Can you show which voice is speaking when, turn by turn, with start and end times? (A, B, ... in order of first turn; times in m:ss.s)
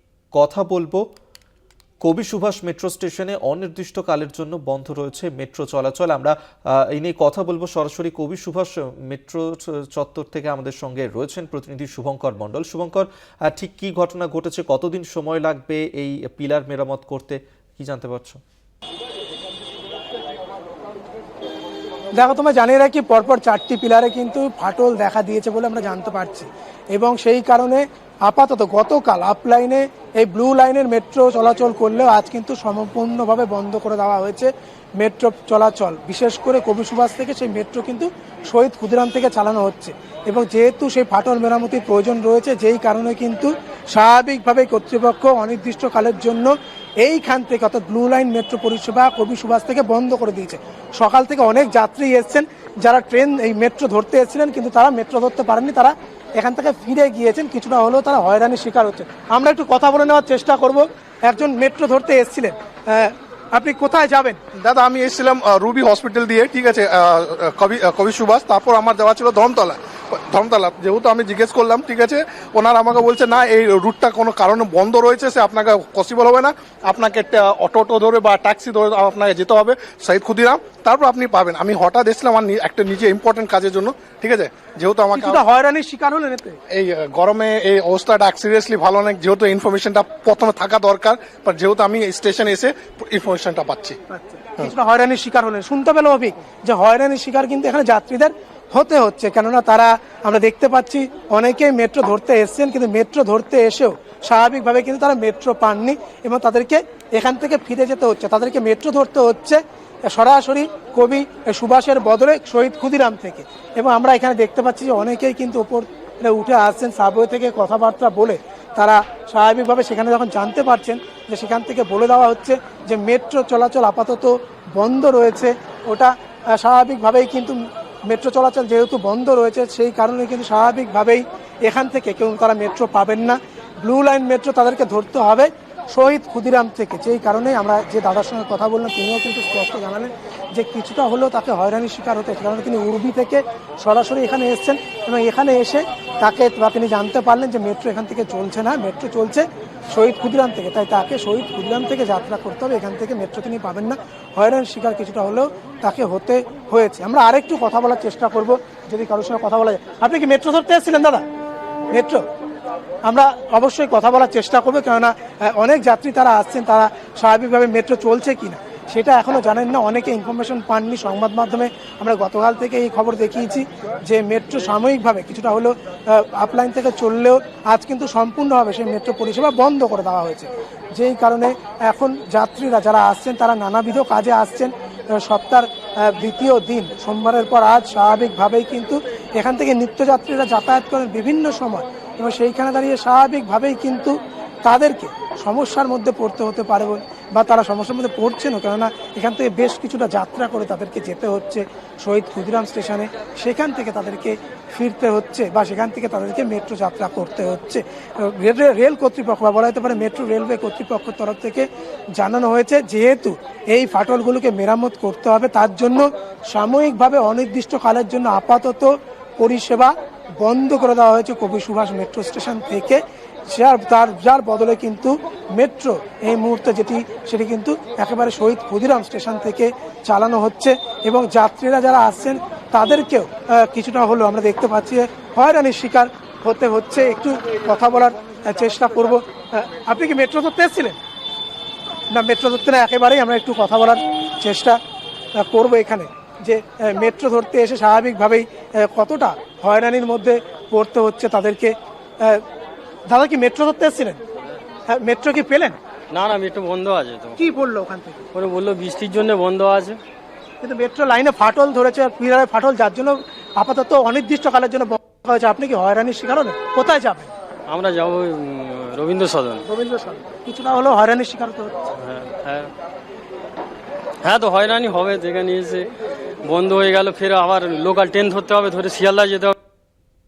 0:00.3-0:01.0 A
0:02.0-0:18.4 A
0:22.2-1:04.4 B
1:04.5-1:25.4 C
1:25.2-1:26.6 B
1:26.7-1:34.0 C
1:34.1-2:41.2 B
2:41.9-2:42.2 B
2:43.1-3:31.6 B
3:32.2-3:43.0 B
3:43.5-4:01.0 B
4:02.1-4:04.8 B
4:05.4-4:12.4 B
4:13.1-4:14.2 B
4:14.9-4:15.7 B
4:16.1-4:17.4 D
4:17.4-4:18.2 B
4:18.3-4:20.0 D
4:20.6-4:27.3 B
4:27.7-4:29.6 D
4:29.7-4:31.7 B
4:31.9-4:32.7 D
4:34.2-4:35.9 D
4:36.4-4:39.5 D